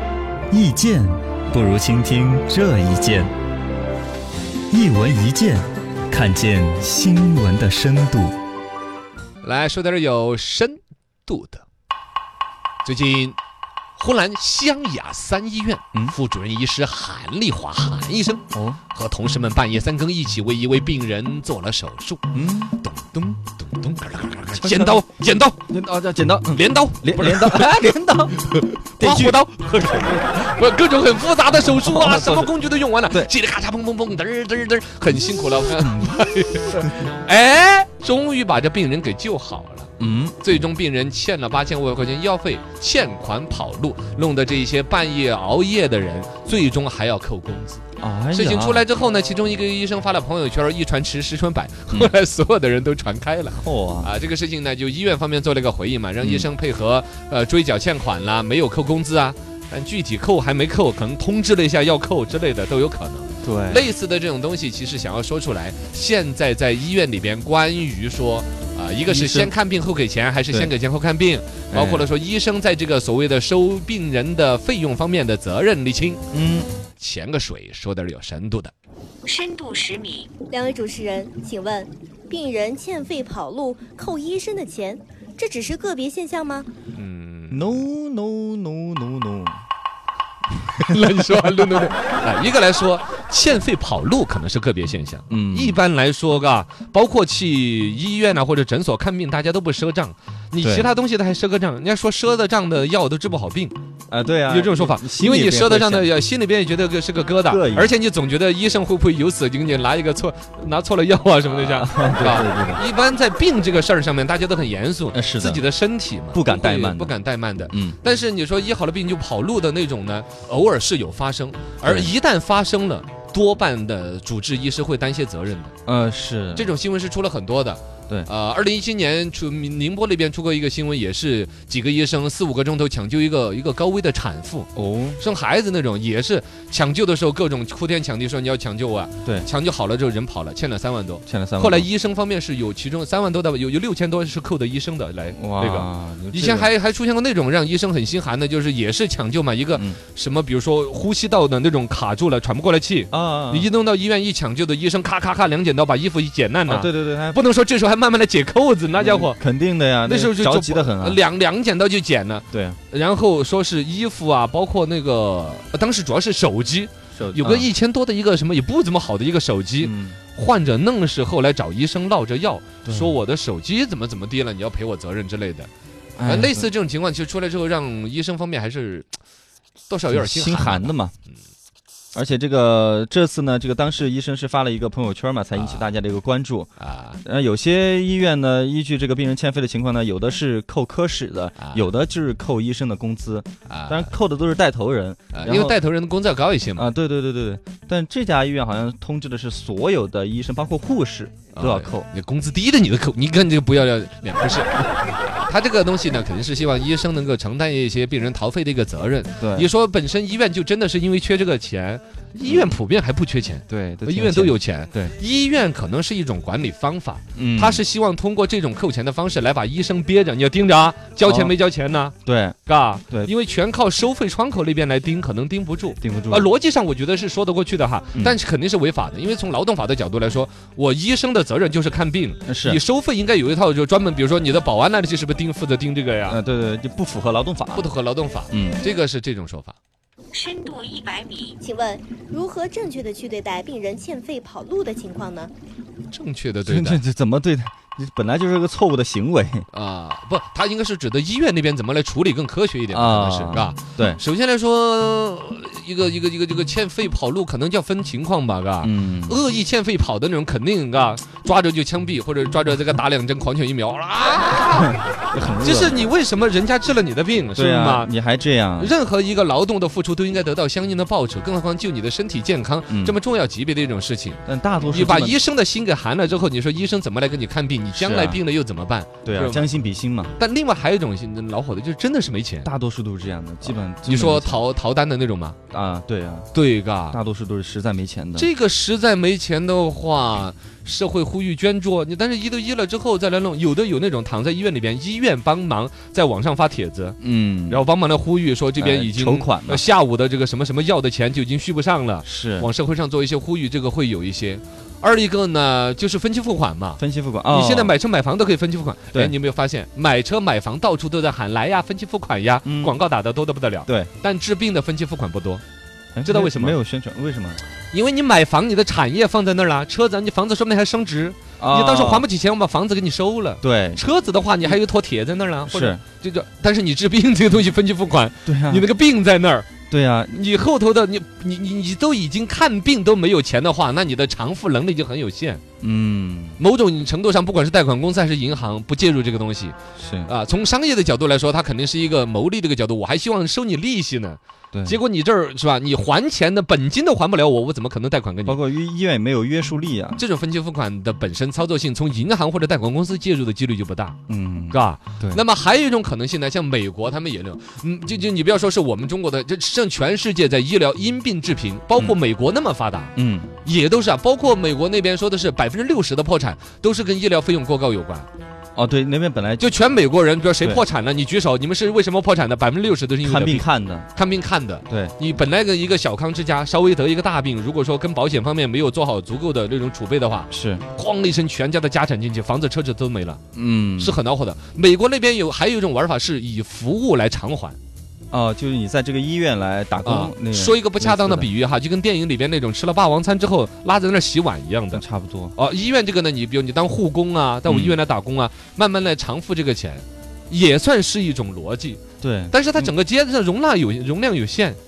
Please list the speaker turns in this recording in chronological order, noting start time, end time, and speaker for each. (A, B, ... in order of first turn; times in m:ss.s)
0:00.5-0:03.3 A
0:04.7-0:08.4 A
0:09.4-0:11.6 B
0:12.8-0:13.4 B
0:14.0-0:25.6 B
0:18.5-0:18.8 A
0:22.3-0:22.7 A
0:24.5-0:25.0 A
0:25.7-0:28.5 A
0:26.5-0:39.9 B
0:29.0-0:29.4 A
0:31.6-0:32.5 A
0:35.6-0:36.9 A
0:40.0-0:40.4 A
0:40.4-0:47.8 B
0:48.0-0:48.8 A
0:48.3-1:16.2 B
0:53.6-0:54.1 A
0:56.2-0:56.5 A
1:03.4-1:03.9 A
1:09.1-1:09.5 A
1:11.7-1:12.1 A
1:16.3-1:16.7 A
1:17.0-1:18.7 B
1:19.2-1:20.3 C
1:20.5-1:26.7 D
1:26.9-1:27.7 B
1:27.5-1:29.6 A
1:30.7-1:43.7 B
1:35.3-1:35.8 A
1:40.6-1:40.9 A
1:44.1-1:46.1 A
1:44.5-2:05.7 B
1:47.5-1:47.9 A
1:51.6-1:52.8 A
1:55.1-1:55.6 A
1:56.3-1:57.1 A
1:57.7-1:58.0 A
2:01.8-2:02.1 A
2:05.8-2:06.7 A
2:06.6-2:39.4 B
2:14.8-2:15.2 A
2:21.3-2:21.9 A
2:25.3-2:26.7 A
2:33.1-2:33.7 A
2:36.6-2:37.4 A
2:39.0-2:41.2 A
2:40.0-2:55.7 B
2:42.5-2:42.8 A
2:47.2-2:47.7 A
2:49.8-2:50.2 A
2:52.8-2:53.2 A
2:56.2-2:56.7 A
2:56.2-2:59.1 B
2:59.9-3:00.9 B
3:00.1-3:01.1 A
3:02.1-3:06.7 A
3:05.5-3:05.9 B
3:06.8-3:07.2 B
3:07.2-3:15.8 A
3:11.6-3:11.8 B
3:13.7-3:14.1 B
3:15.3-3:16.9 B
3:16.8-3:22.1 A
3:21.5-3:42.1 B
3:29.4-3:29.7 A
3:32.5-3:32.8 A
3:33.7-3:35.1 A
3:37.4-3:37.8 A
3:41.2-3:41.5 A
3:42.2-3:42.6 A
3:42.6-3:56.4 B
3:46.0-3:46.5 A
3:52.5-3:52.8 A
3:56.2-3:57.9 A
3:57.7-3:59.8 B
3:58.5-3:58.8 A
4:00.3-4:01.6 C
4:01.6-4:05.5 D
4:06.1-4:07.0 B
4:06.6-4:09.6 A
4:09.7-4:25.0 B
4:12.9-4:14.2 A
4:18.8-4:19.4 A
4:24.8-4:26.1 A
4:25.6-4:28.1 B
4:27.5-4:28.9 A
4:28.8-4:39.6 B
4:32.9-4:33.2 A
4:34.4-4:35.4 A
4:38.0-4:38.4 A
4:39.2-4:40.3 A
4:40.4-4:42.7 B
4:42.6-4:44.6 A
4:43.6-4:45.6 B
4:45.7-4:46.5 A
4:46.5-4:47.2 B
4:47.1-4:48.5 A
4:48.4-4:57.2 B
4:57.2-4:57.8 A
4:57.7-5:15.6 B
4:58.8-4:59.8 A
5:02.2-5:02.7 A
5:07.0-5:07.9 A
5:12.6-5:12.9 A
5:13.8-5:14.1 A
5:16.1-5:17.6 A
5:16.2-5:16.8 B
5:17.9-5:29.7 B
5:21.6-5:22.3 A
5:23.6-5:24.0 A
5:25.6-5:26.0 A
5:28.4-5:28.9 A
5:29.9-5:30.4 A
5:30.3-5:35.6 B
5:35.8-5:36.6 A
5:36.6-5:39.8 B
5:40.0-5:40.3 A
5:40.3-5:48.6 B
5:44.7-5:45.0 A
5:48.4-5:50.2 A
5:50.2-5:54.2 B
5:54.3-5:55.4 A
5:54.7-6:03.1 B
6:03.2-6:03.5 A
6:03.6-6:08.3 B
6:08.8-6:09.7 A
6:09.6-6:23.4 B
6:13.2-6:14.1 A
6:14.9-6:15.1 A
6:20.5-6:20.8 A
6:23.5-6:24.2 A
6:24.0-6:27.8 B
6:28.3-6:31.5 A
6:30.0-6:35.0 B
6:34.9-6:35.5 A
6:35.6-6:44.8 B
6:37.7-6:38.0 A
6:42.2-6:42.9 A